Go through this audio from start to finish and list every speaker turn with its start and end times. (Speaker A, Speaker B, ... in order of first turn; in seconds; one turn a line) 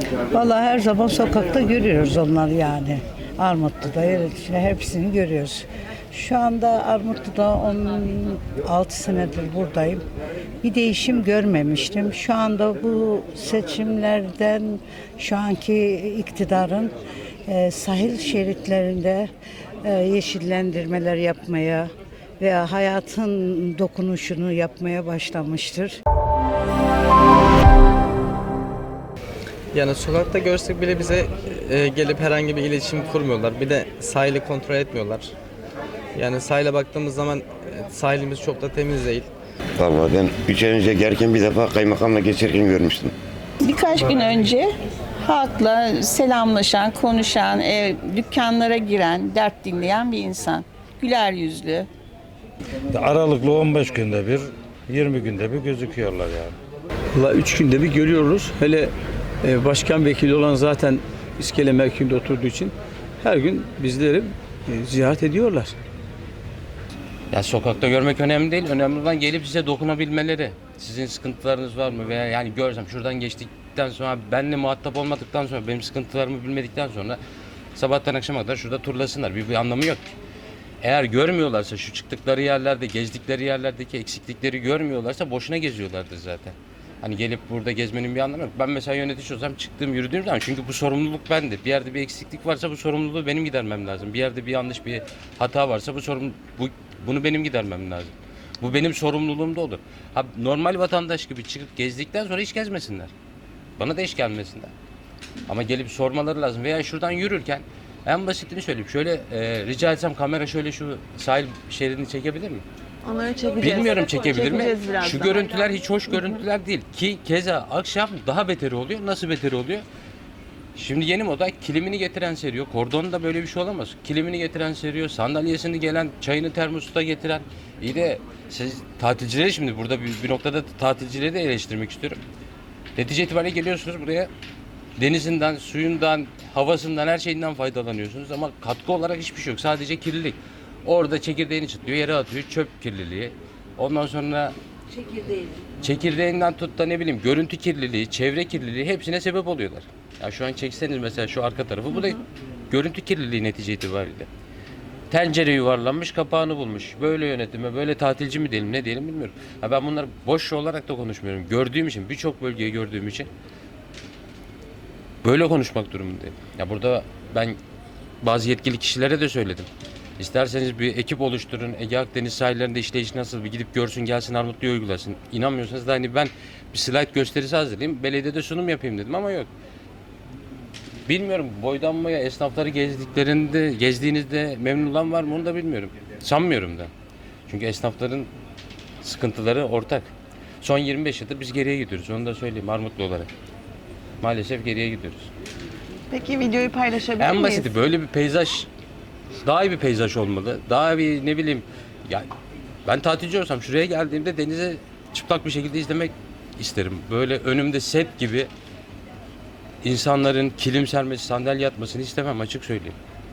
Speaker A: 0.3-10.0
Speaker A: 10.6-16.9
Speaker A: 17.5-19.3
Speaker A: 19.8-21.9
Speaker A: 22.4-26.0
Speaker B: 29.7-35.3
Speaker B: 36.2-39.3
Speaker C: 39.8-43.1
Speaker D: 43.6-51.9
Speaker E: 52.9-56.6
Speaker F: 57.3-58.8
Speaker F: 59.5-60.9
Speaker F: 61.4-62.7
Speaker F: 63.2-65.7
Speaker G: 67.3-77.2
Speaker G: 77.8-80.1
Speaker G: 80.8-103.1
Speaker G: 103.8-104.7
Speaker G: 105.5-112.6
Speaker H: 113.0-115.7
Speaker G: 113.6-119.8
Speaker G: 120.8-132.2
Speaker G: 133.0-134.3
Speaker G: 135.0-144.6
Speaker G: 145.8-154.3
Speaker G: 155.1-163.3
Speaker G: 165.2-167.6
Speaker G: 168.2-169.7
Speaker G: 170.2-179.5
Speaker G: 181.1-186.9
Speaker G: 187.5-188.3
Speaker G: 189.0-190.1
Speaker G: 190.6-193.3
Speaker G: 194.2-195.3
Speaker H: 196.1-197.7
Speaker G: 197.2-198.7
Speaker G: 199.4-202.3
Speaker G: 202.9-208.5
Speaker G: 209.8-213.0